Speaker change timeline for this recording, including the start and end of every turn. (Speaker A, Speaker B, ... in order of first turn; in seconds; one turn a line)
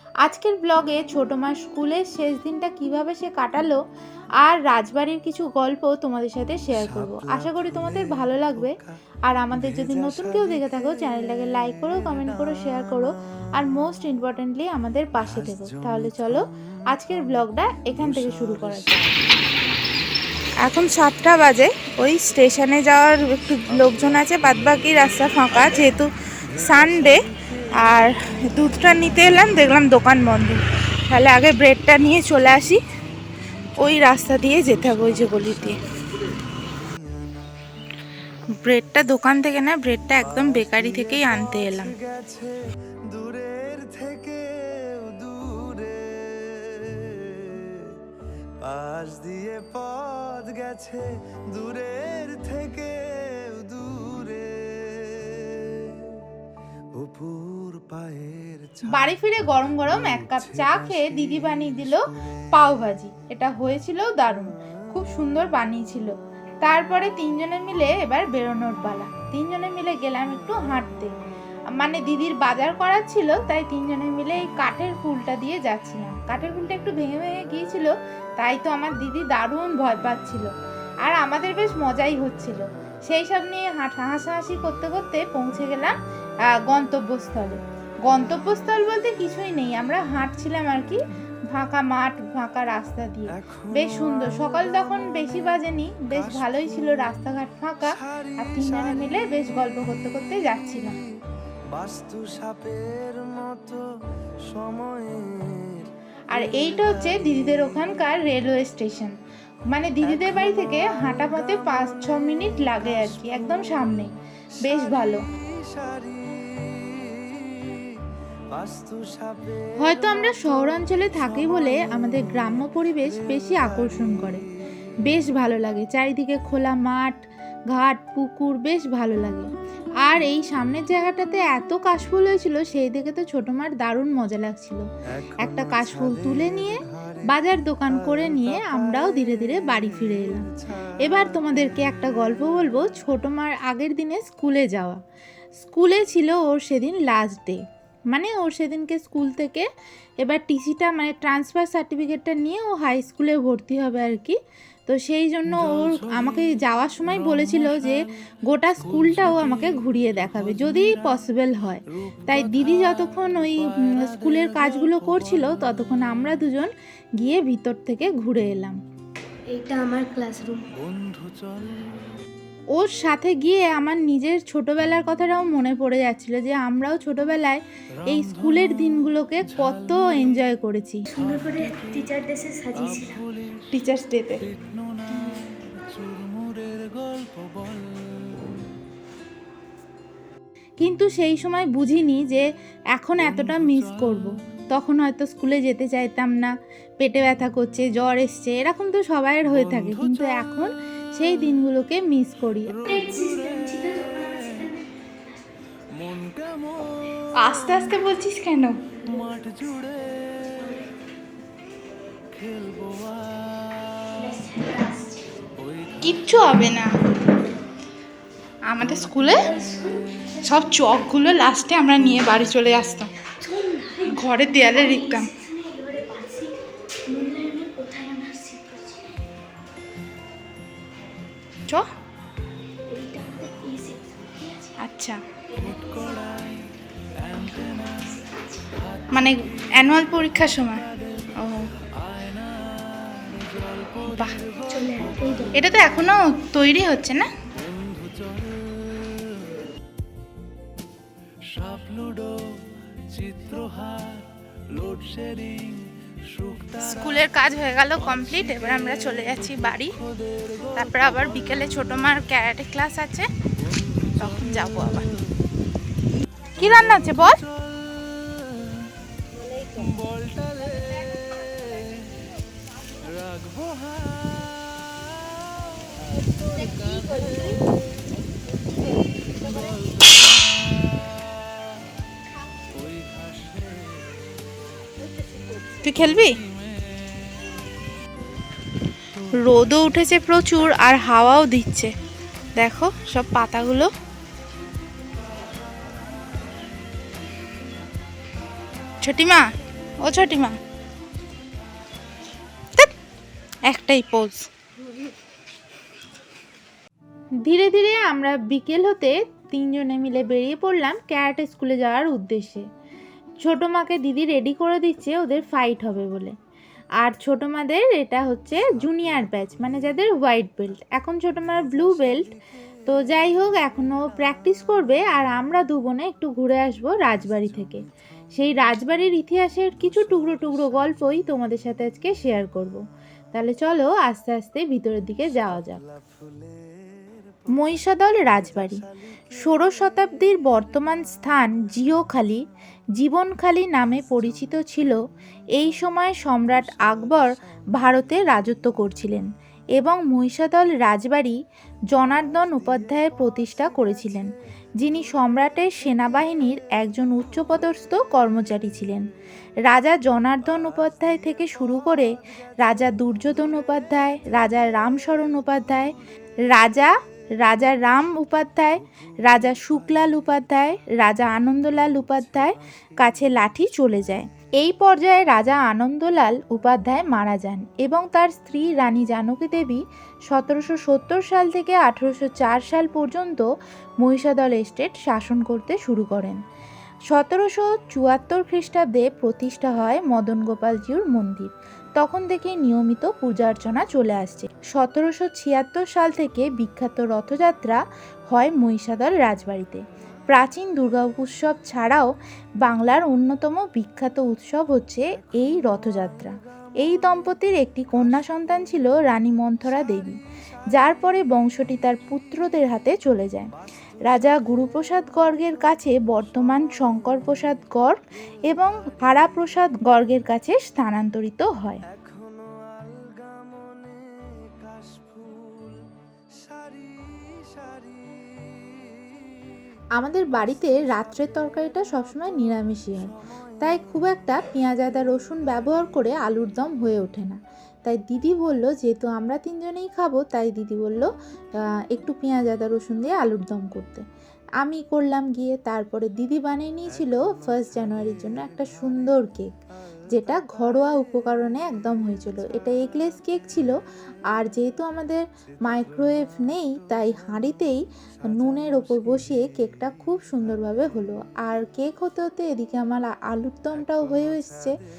Speaker A: 0.2-3.8
Speaker A: 4.4-8.8
Speaker A: 9.3-19.1
Speaker A: 20.6-27.2
Speaker A: 27.8-32.8
Speaker A: 33.8-35.8
Speaker A: 38.5-42.0
Speaker B: 42.1-47.8
Speaker B: 48.6-56.1
Speaker B: 57.0-58.7
Speaker A: 58.9-71.1
Speaker A: 71.8-80.5
Speaker A: 81.0-85.9
Speaker A: 86.5-91.0
Speaker A: 91.5-101.0
Speaker B: 101.7-103.8
Speaker B: 104.5-105.9
Speaker A: 106.3-109.2
Speaker A: 109.7-115.2
Speaker B: 115.5-117.8
Speaker B: 118.5-119.6
Speaker A: 119.8-124.4
Speaker A: 125.0-127.2
Speaker A: 127.7-129.5
Speaker A: 130.0-134.8
Speaker A: 135.4-140.5
Speaker A: 141.0-145.0
Speaker A: 145.6-149.7
Speaker A: 150.2-168.8
Speaker C: 169.5-170.7
Speaker B: 170.9-171.6
Speaker A: 172.7-181.0
Speaker C: 181.1-183.2
Speaker A: 183.7-184.4
Speaker B: 185.1-188.3
Speaker A: 190.8-202.8
Speaker C: 202.8-205.4
Speaker B: 206.1-206.7
Speaker A: 207.4-208.8
Speaker C: 209.0-209.2
Speaker B: 209.2-210.1
Speaker C: 210.5-210.9
Speaker B: 212.5-213.9
Speaker C: 214.1-215.5
Speaker A: 216.0-216.9
Speaker A: 218.7-219.5
Speaker C: 219.3-220.8
Speaker A: 220.4-223.1
Speaker C: 223.4-229.2
Speaker A: 224.1-225.3
Speaker C: 232.9-234.7
Speaker A: 234.8-235.2
Speaker C: 235.5-238.8
Speaker A: 239.1-240.8
Speaker A: 241.4-241.7
Speaker B: 243.2-243.9
Speaker A: 244.0-244.4
Speaker C: 244.7-245.6
Speaker A: 245.5-247.3
Speaker B: 247.8-248.5
Speaker B: 251.5-252.6
Speaker B: 253.1-256.7
Speaker A: 256.8-260.0
Speaker A: 260.7-263.3
Speaker A: 264.1-265.1
Speaker A: 266.6-267.4
Speaker C: 269.4-269.8
Speaker B: 270.0-271.8
Speaker B: 273.2-275.0
Speaker C: 276.6-277.7
Speaker B: 276.6-277.3
Speaker B: 283.0-283.8
Speaker A: 285.8-286.4
Speaker A: 289.4-291.9
Speaker A: 292.6-293.9
Speaker A: 299.0-299.4
Speaker A: 300.0-300.6
Speaker A: 303.7-304.4
Speaker A: 307.4-312.6
Speaker A: 313.4-316.3
Speaker A: 317.0-322.3
Speaker A: 322.9-332.8
Speaker A: 333.3-335.8
Speaker A: 337.5-338.8
Speaker A: 339.4-342.4
Speaker A: 343.0-345.0
Speaker A: 345.6-351.4
Speaker A: 351.9-359.0
Speaker A: 359.6-362.1
Speaker A: 362.6-365.9
Speaker A: 366.5-366.9
Speaker A: 367.4-383.5
Speaker A: 384.0-386.4
Speaker A: 387.1-402.1
Speaker A: 402.6-410.2
Speaker A: 410.7-413.5
Speaker A: 414.1-418.0
Speaker A: 418.5-421.8
Speaker B: 422.0-425.7
Speaker B: 426.6-428.2
Speaker A: 429.9-441.1
Speaker A: 441.9-444.0
Speaker A: 444.6-449.6
Speaker A: 450.1-453.7
Speaker A: 454.3-464.7